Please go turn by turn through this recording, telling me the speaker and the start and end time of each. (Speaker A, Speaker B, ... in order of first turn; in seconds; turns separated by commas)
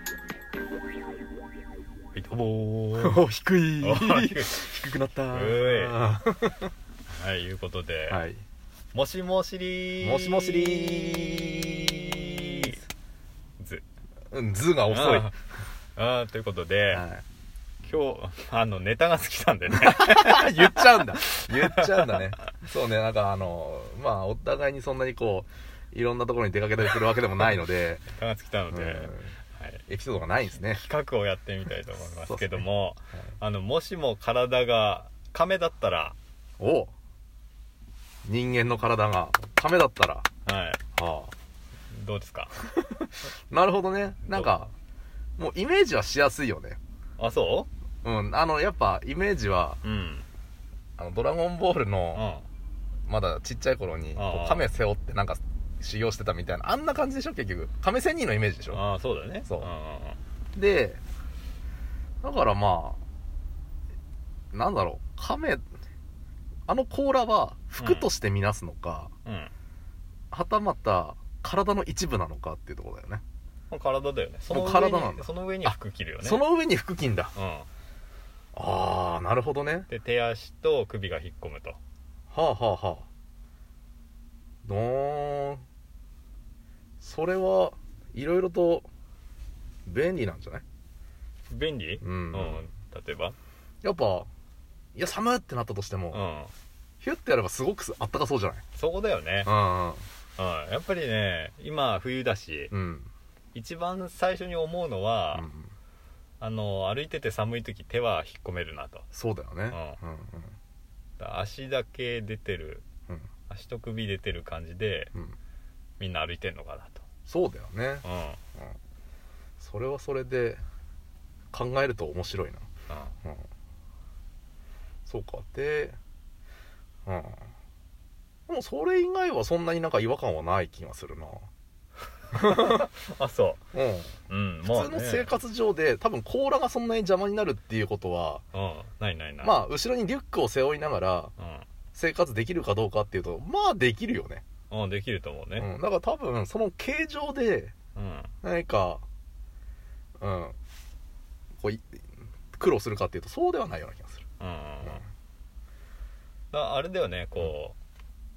Speaker A: 2.1-3.2, Speaker B: 3.0-6.7, Speaker A: 3.8-4.7, Speaker A: 5.3-6.0, Speaker A: 7.1-8.2, Speaker B: 8.1-8.4, Speaker A: 8.9-12.8, Speaker B: 10.0-12.7, Speaker A: 13.6-13.8, Speaker B: 14.3-15.3, Speaker A: 14.9-15.3, Speaker A: 16.0-17.0, Speaker B: 16.9-17.2, Speaker A: 17.8-22.2, Speaker B: 19.7-28.1, Speaker A: 28.1-29.8, Speaker B: 28.7-29.4, Speaker B: 29.9-30.8, Speaker A: 30.5-36.2, Speaker B: 32.2-32.6, Speaker B: 36.6-36.9, Speaker B: 38.2-40.3, Speaker A: 40.5-40.8, Speaker B: 41.0-41.3, Speaker A: 41.9-42.5, Speaker B: 42.6-44.7, Speaker A: 44.2-44.7, Speaker B: 45.4-46.8, Speaker A: 47.2-47.7, Speaker B: 48.0-49.8, Speaker A: 49.8-50.2, Speaker B: 51.0-52.2, Speaker A: 52.1-52.5, Speaker B: 53.1-58.8, Speaker A: 54.2-54.7, Speaker A: 58.7-60.2, Speaker B: 59.5-59.7, Speaker B: 60.5-61.0, Speaker B: 62.2-63.0, Speaker B: 64.5-65.7, Speaker B: 66.7-69.1, Speaker A: 67.8-68.1, Speaker A: 69.2-69.5, Speaker B: 70.3-73.2, Speaker A: 73.7-76.4, Speaker B: 74.5-77.3, Speaker A: 77.3-77.7, Speaker B: 78.5-79.9, Speaker A: 79.9-81.8, Speaker B: 82.3-83.1, Speaker B: 84.6-85.6, Speaker B: 87.0-88.9, Speaker B: 89.9-90.6, Speaker A: 91.5-93.4, Speaker B: 92.0-92.7, Speaker B: 93.8-94.3, Speaker B: 95.0-96.2, Speaker A: 96.1-96.5, Speaker B: 97.0-98.6, Speaker A: 98.8-99.5, Speaker B: 99.5-100.1, Speaker A: 100.4-102.7, Speaker B: 102.7-103.1, Speaker A: 103.5-105.5, Speaker B: 105.3-105.7, Speaker A: 106.4-109.0, Speaker B: 109.1-110.5, Speaker A: 109.7-110.0, Speaker A: 111.2-112.8, Speaker A: 113.5-115.1, Speaker A: 116.0-117.0, Speaker B: 117.3-118.0, Speaker A: 118.0-118.4, Speaker B: 119.6-120.6, Speaker B: 121.5-122.7, Speaker A: 122.9-123.1, Speaker B: 125.1-126.0, Speaker B: 127.1-127.5, Speaker B: 128.5-131.5, Speaker B: 132.3-132.9, Speaker A: 132.4-133.6, Speaker B: 133.7-138.4, Speaker A: 134.3-135.3, Speaker A: 138.5-139.6, Speaker B: 139.4-141.3, Speaker A: 141.4-141.7, Speaker B: 141.9-144.4, Speaker A: 144.7-145.7, Speaker B: 145.6-147.7, Speaker A: 148.0-148.3, Speaker B: 148.4-149.0, Speaker B: 150.2-150.6, Speaker B: 151.6-154.2, Speaker A: 154.4-155.0, Speaker A: 156.5-157.8